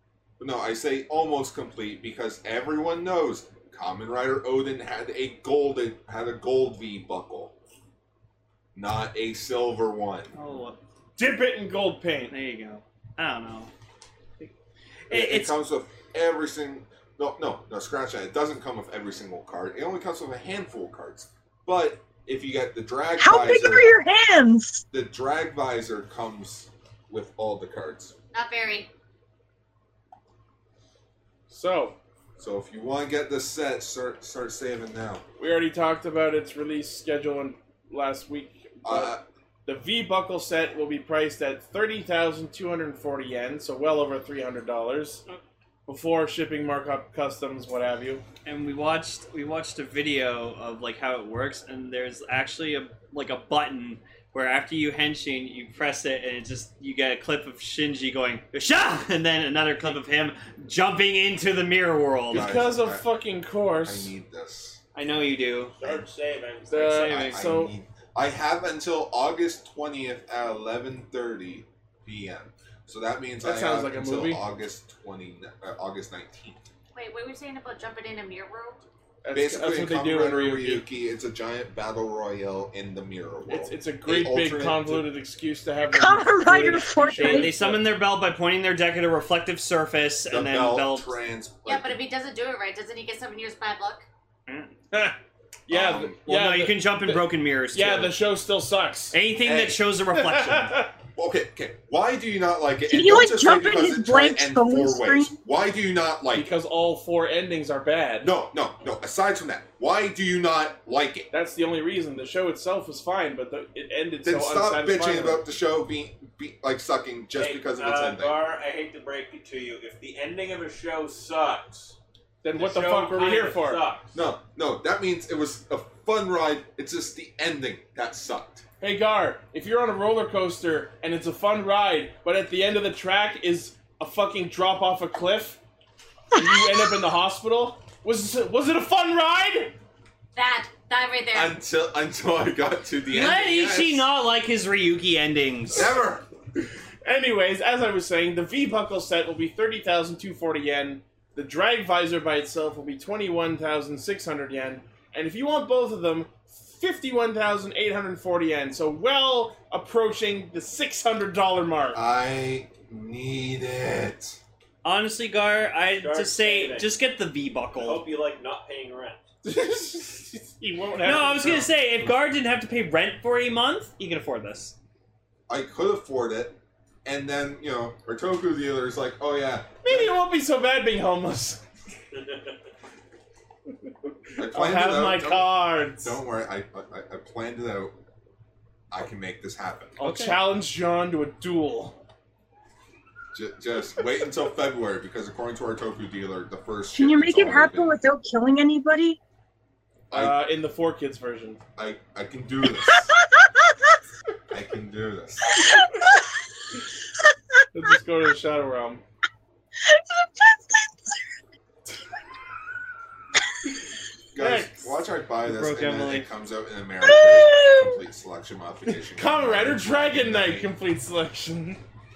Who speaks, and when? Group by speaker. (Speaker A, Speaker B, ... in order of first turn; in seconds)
Speaker A: 0.4-7.5, 8.7-10.3, 15.1-23.9, 24.9-28.1, 32.4-35.2, 38.8-39.2, 62.3-63.1, 63.8-64.8, 67.1-76.6, 79.3-85.1, 90.3-92.0, 95.7-96.2, 99.4-99.8, 101.1-106.5, 108.2-111.3, 114.2-118.4, 124.1-128.6, 141.3-144.1, 145.7-146.2, 161.9-164.4, 175.5-180.2, 184.4-188.0, 188.9-190.0, 193.3-197.9, 200.1-200.4, 201.8-203.1, 204.5-205.5, 214.3-220.7
Speaker B: 10.3-10.8, 12.3-13.7, 15.1-15.6, 48.5-62.5, 65.0-65.8, 66.7-67.5, 87.1-91.1, 94.5-94.7, 96.2-98.2, 99.1-100.8, 143.1-145.9, 164.8-168.1, 171.0-174.7, 190.0-190.4, 215.4-216.3
Speaker C: 11.2-12.3, 31.5-31.9, 35.4-45.2, 45.9-48.2, 62.3-64.1, 66.7-67.7, 73.4-74.4, 79.2-80.8, 83.5-87.8, 94.9-99.1, 100.1-100.9, 106.3-108.3, 111.3-115.4, 122.4-123.9, 128.8-135.6, 136.3-139.8, 147.0-162.0, 169.4-171.7, 179.8-181.6, 184.4-186.2, 190.0-192.0, 200.1-201.6, 207.7-209.0, 214.4-215.0, 218.9-221.8
Speaker D: 23.2-24.8, 85.8-87.5, 102.9-105.3, 196.9-199.2, 205.5-206.2, 209.9-210.9, 217.0-218.0
Speaker E: 28.3-28.9, 77.0-78.8, 91.7-94.0, 140.3-141.6
Speaker F: 65.7-67.0, 117.4-122.0, 122.5-124.1, 165.9-166.9, 167.7-169.3, 182.1-182.4